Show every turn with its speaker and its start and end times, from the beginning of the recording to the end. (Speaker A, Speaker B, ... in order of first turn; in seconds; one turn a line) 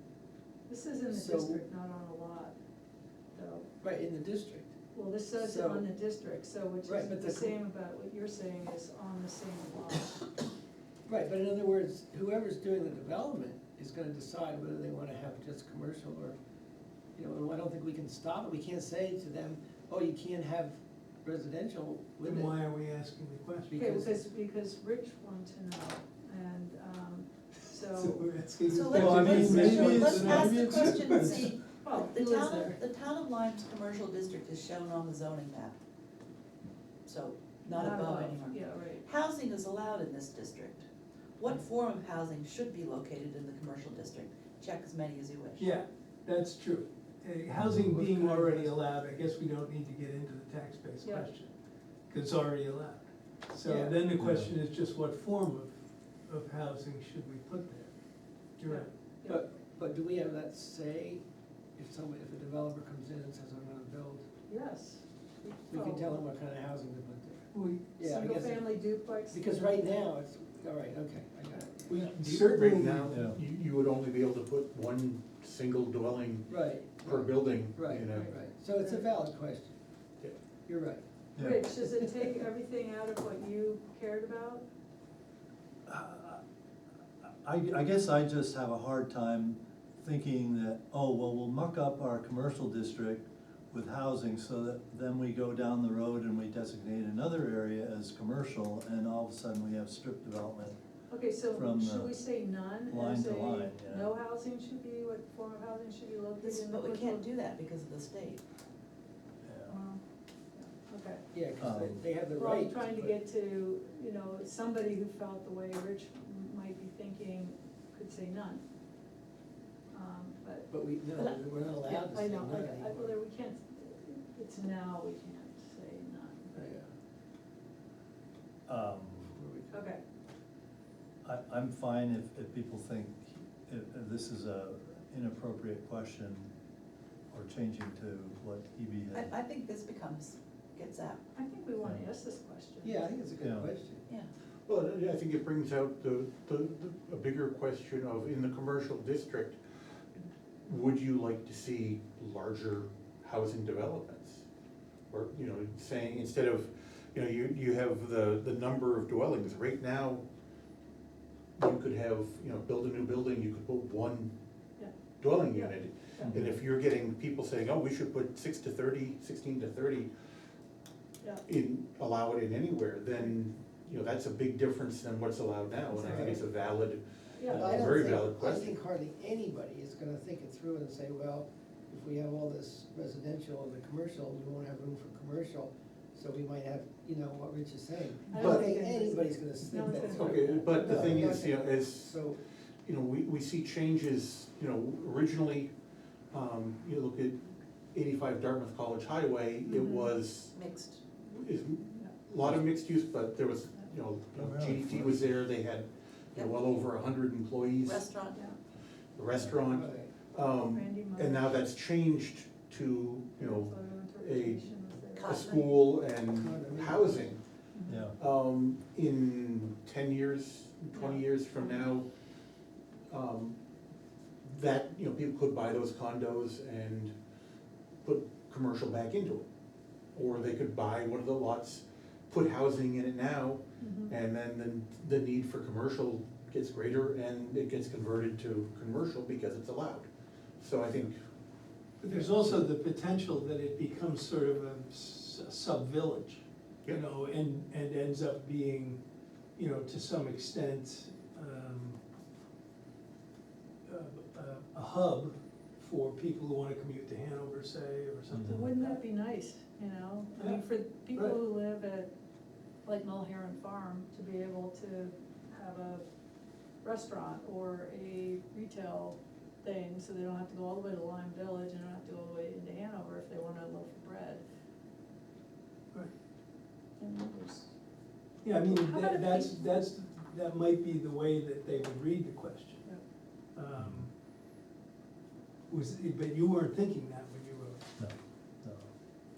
Speaker A: 0.7-2.5
Speaker B: 1.1-1.6
Speaker A: 3.3-3.7
Speaker B: 3.8-4.7
Speaker A: 4.9-10.2
Speaker B: 5.4-5.8
Speaker B: 6.8-7.5
Speaker B: 11.1-16.4
Speaker B: 17.1-22.6
Speaker C: 22.2-24.0
Speaker B: 23.7-24.1
Speaker A: 23.8-28.3
Speaker C: 27.6-31.6
Speaker D: 28.7-35.8
Speaker E: 29.0-30.7
Speaker B: 29.4-29.8
Speaker A: 31.8-32.7
Speaker B: 32.2-32.8
Speaker D: 37.1-40.9
Speaker A: 37.7-39.0
Speaker D: 41.4-45.7
Speaker C: 45.6-51.5
Speaker E: 47.6-47.9
Speaker B: 47.9-48.7
Speaker A: 51.0-51.3
Speaker C: 52.1-57.9
Speaker B: 53.7-54.0
Speaker E: 54.2-54.5
Speaker C: 58.6-58.9
Speaker A: 58.6-59.5
Speaker B: 59.2-61.2
Speaker B: 61.8-64.3
Speaker A: 64.5-66.2
Speaker B: 65.7-68.8
Speaker C: 67.5-68.0
Speaker A: 67.9-70.0
Speaker B: 69.3-72.1
Speaker C: 71.9-73.2
Speaker F: 72.0-78.3
Speaker E: 73.1-73.4
Speaker B: 76.5-79.8
Speaker A: 78.1-79.1
Speaker B: 80.7-81.0
Speaker A: 81.4-84.7
Speaker E: 81.4-81.7
Speaker B: 81.8-82.3
Speaker E: 85.9-86.4
Speaker E: 87.2-100.8
Speaker A: 101.1-107.2
Speaker E: 101.5-102.2
Speaker E: 102.9-104.1
Speaker D: 106.4-108.4
Speaker E: 109.4-109.8
Speaker A: 109.7-110.0
Speaker A: 110.5-111.2
Speaker B: 111.3-113.2
Speaker E: 111.6-112.0
Speaker A: 112.3-118.6
Speaker A: 119.9-120.7
Speaker B: 120.7-123.1
Speaker D: 121.2-122.0
Speaker A: 121.9-126.8
Speaker B: 126.5-126.9
Speaker E: 128.7-129.4
Speaker B: 129.3-129.8
Speaker A: 129.7-130.0
Speaker E: 131.2-136.5
Speaker E: 137.3-139.3
Speaker D: 139.1-141.2
Speaker A: 141.3-143.1
Speaker B: 142.8-144.1
Speaker E: 143.4-143.7
Speaker F: 144.7-149.6
Speaker F: 150.7-154.4
Speaker F: 155.1-160.2
Speaker F: 161.6-164.3
Speaker A: 164.8-166.4
Speaker F: 165.2-170.1
Speaker F: 171.4-178.8
Speaker A: 175.9-176.4
Speaker B: 176.0-176.4
Speaker A: 177.4-177.7
Speaker B: 177.5-192.4
Speaker C: 177.7-177.9
Speaker A: 188.3-191.1
Speaker F: 188.3-188.7
Speaker F: 190.0-192.2
Speaker F: 192.8-195.7
Speaker F: 196.3-200.6
Speaker A: 199.7-200.2
Speaker D: 200.5-201.0
Speaker F: 201.2-208.1
Speaker E: 204.3-205.3
Speaker D: 206.3-206.8
Speaker D: 207.8-208.4
Speaker A: 208.3-208.6
Speaker F: 209.2-217.4
Speaker E: 209.3-209.6
Speaker B: 209.7-210.1
Speaker A: 210.6-211.6
Speaker A: 213.4-215.4
Speaker D: 215.2-215.7
Speaker B: 216.3-217.3
Speaker A: 217.8-218.1
Speaker E: 217.9-218.2
Speaker F: 218.2-222.1
Speaker A: 220.9-221.9
Speaker F: 223.1-223.6
Speaker F: 224.4-227.1
Speaker F: 228.0-229.5
Speaker F: 230.1-240.1
Speaker A: 233.8-234.2
Speaker F: 240.6-241.2
Speaker C: 242.0-249.0
Speaker C: 249.6-252.0
Speaker C: 253.9-259.0
Speaker E: 258.3-258.6
Speaker A: 258.5-262.1
Speaker C: 260.4-261.4
Speaker A: 262.8-266.0
Speaker A: 266.8-274.4
Speaker D: 277.0-277.6
Speaker C: 278.4-282.9
Speaker A: 278.6-279.6
Speaker C: 283.5-284.1
Speaker E: 283.7-284.0
Speaker C: 285.7-287.8
Speaker E: 288.0-288.9